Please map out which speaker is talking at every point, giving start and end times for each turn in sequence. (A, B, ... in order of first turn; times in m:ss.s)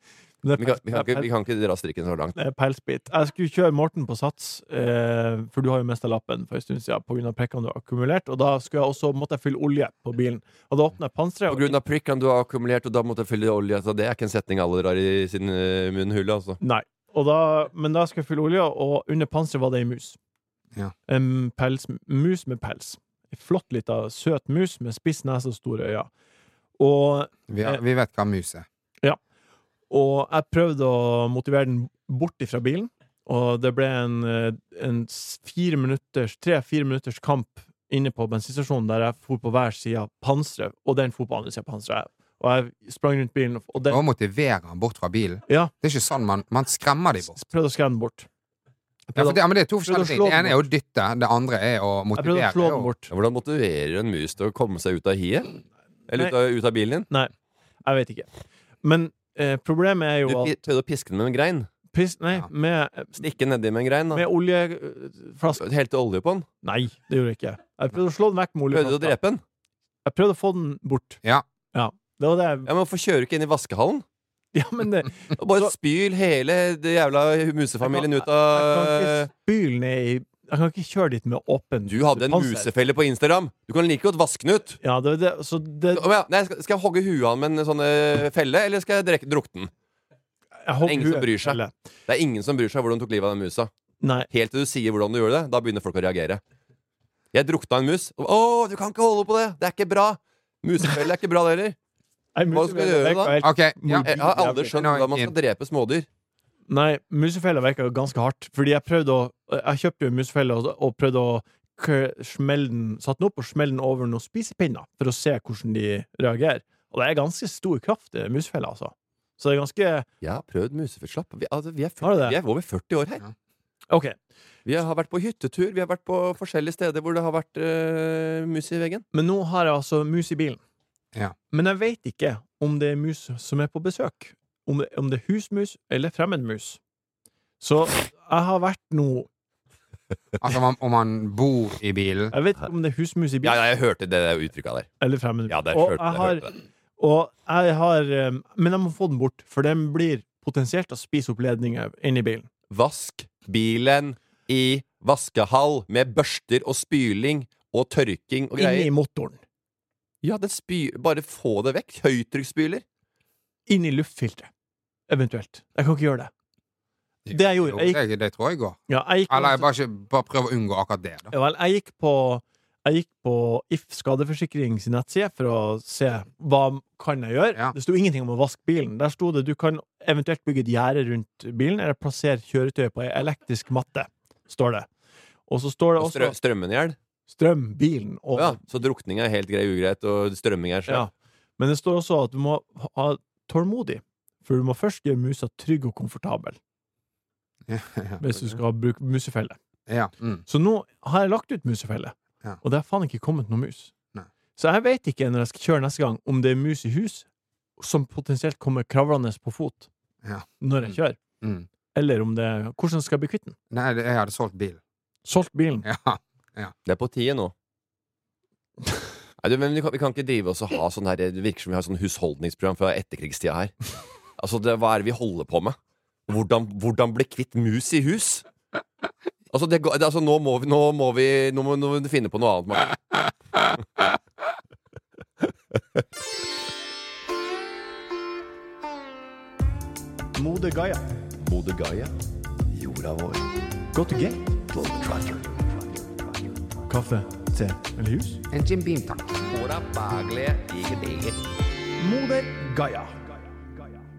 0:00.4-0:01.3 A
0:00.6-0:02.4 B
0:02.4-0:11.8 A
0:11.5-0:16.6 B
0:16.6-0:20.2 A
0:21.1-0:26.1 A
0:26.8-0:27.8 A
0:27.5-0:28.6 C
0:29.9-0:44.0 A
0:43.9-0:47.4 C
0:47.3-0:48.3 A
0:49.1-0:50.6 A
0:49.2-0:52.9 C
0:52.2-0:53.1 A
0:53.1-0:57.1 B
0:57.8-0:58.3 A
0:58.8-1:00.5 A
1:00.3-1:01.7 B
1:01.9-1:03.2 A
1:03.2-1:04.2 B
1:04.1-1:05.6 A
1:05.6-1:06.5 B
1:06.6-1:09.2 A
1:08.7-1:09.4 B
1:10.0-1:11.2 A
1:11.7-1:12.7 A
1:12.6-1:14.0 B
1:14.5-1:15.7 A
1:15.4-1:19.3 B
1:17.8-1:22.7 A
1:21.9-1:24.8 B
1:24.8-1:26.0 A
1:25.9-1:29.7 B
1:30.6-1:31.7 A
1:30.8-1:33.7 B
1:34.0-1:34.3 A
1:34.3-1:36.4 B
1:37.3-1:41.8 B
1:42.4-1:44.8 A
1:42.5-1:43.4 B
1:43.4-1:44.1 C
1:44.0-1:46.1 B
1:44.8-1:45.3 C
1:46.7-2:00.1 A
2:00.2-2:03.2 B
2:02.0-2:02.4 A
2:03.9-2:04.2 A
2:04.6-2:09.0 B
2:09.1-2:10.6 A
2:11.5-2:16.8 A
2:17.6-2:19.3 A
2:20.4-2:22.3 C
2:22.3-2:23.6 A
2:23.4-2:24.9 B
2:25.0-2:26.5 A
2:25.5-2:26.5 B
2:27.0-2:32.5 A
2:32.7-2:38.9 B
2:38.6-2:39.4 A
2:40.2-2:42.8 B
2:43.7-2:44.5 A
2:45.1-2:46.3 A
2:47.3-2:51.3 C
2:47.3-2:48.0 A
2:48.9-2:49.6 A
2:51.3-3:04.9 A
3:05.5-3:06.4 A
3:06.0-3:07.0 B
3:07.3-3:08.6 A
3:08.4-3:11.1 B
3:10.9-3:16.6 A
3:17.7-3:18.2 C
3:18.2-3:19.6 A
3:19.9-3:20.4 C
3:20.5-3:23.9 A
3:24.6-3:27.3 A
3:27.8-3:29.9 A
3:30.2-3:31.7 C
3:30.6-3:31.2 A
3:32.0-3:33.6 A
3:33.7-3:34.8 C
3:35.3-3:35.9 A
3:35.8-3:36.7 C
3:36.9-3:37.5 B
3:39.4-3:43.7 B
3:44.4-3:45.8 B
3:46.3-3:48.4 B
3:49.5-3:53.0 B
4:00.4-4:01.1 A
4:01.4-4:02.1 B
4:02.7-4:03.5 B
4:03.9-4:04.6 A
4:04.7-4:06.0 B
4:06.9-4:08.4 A
4:08.5-4:09.4 C
4:09.5-4:11.4 B
4:12.0-4:13.1 A